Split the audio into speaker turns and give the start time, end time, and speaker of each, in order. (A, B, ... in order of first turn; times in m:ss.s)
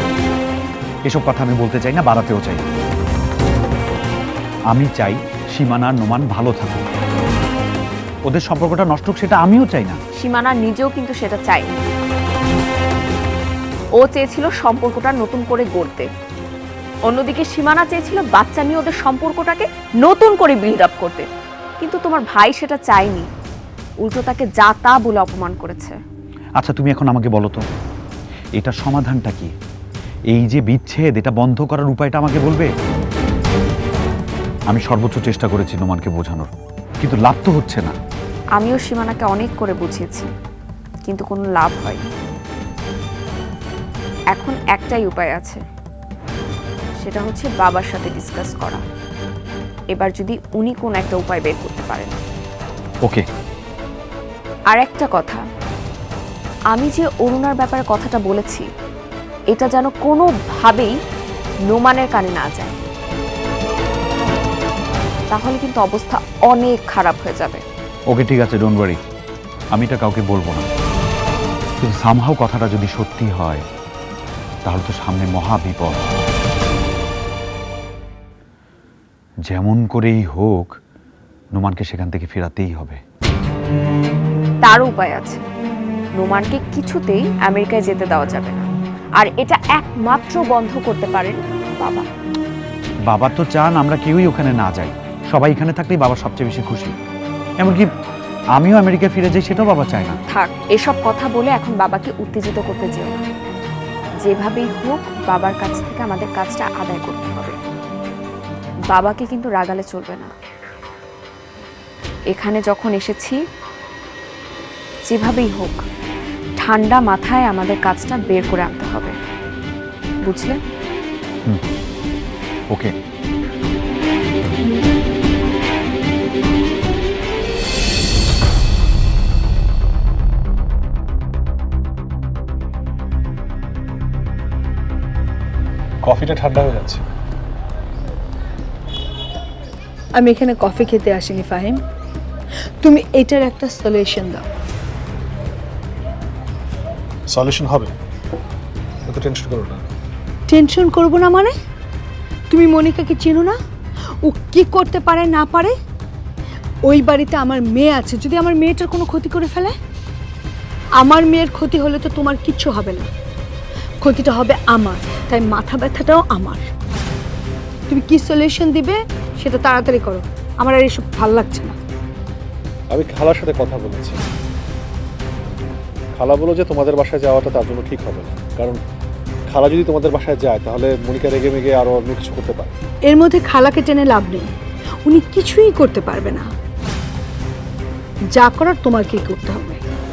0:01.1-0:02.6 A
0:04.7-0:06.8 A
0:08.3-0:10.0 A
0:10.2-0:11.8 B
0:14.0-0:16.1 B
0:17.1-0:21.2 B
0:21.8-0:23.3 B
0:24.0-0:26.0 B
0:26.6-0:27.6 A
0:28.6-0:29.5 A
0:30.3-0:32.7 A
0:34.7-0:37.9 A
0:38.6-0:40.3 B
0:41.0-0:42.0 B
0:44.3-0:45.6 B
0:47.0-0:48.8 B
0:49.9-0:52.2 B
0:54.7-0:55.4 B
0:56.7-0:58.6 B
0:59.5-1:00.9 B
1:01.7-1:02.7 B
1:05.3-1:07.6 B
1:08.1-1:09.0 A
1:09.7-1:10.6 A
1:11.8-1:13.6 A
1:14.6-1:16.1 A
1:19.5-1:20.7 A
1:21.5-1:23.0 A
1:24.6-1:25.4 B
1:26.2-1:28.7 B
1:29.2-1:32.0 B
1:33.1-1:36.9 A
1:38.6-1:40.2 A
1:40.3-1:43.2 B
1:44.2-1:47.5 B
1:48.9-1:50.3 B
1:52.3-1:53.4 B
1:55.1-1:55.8 B
1:56.6-1:59.1 B
2:00.2-2:00.6 B
2:16.0-2:17.0 C
2:20.1-2:21.8 D
2:22.8-2:24.4 D
2:27.3-2:27.9 C
2:29.1-2:29.8 C
2:30.5-2:31.5 D
2:32.5-2:33.6 D
2:34.2-2:35.7 D
2:36.8-2:39.8 D
2:41.0-2:43.1 D
2:44.0-2:46.7 D
2:47.9-2:51.8 D
2:52.9-2:54.2 C
2:56.1-2:58.8 C
2:59.5-3:02.7 C
3:03.1-3:04.5 D
3:05.0-3:06.5 D
3:08.3-3:09.8 D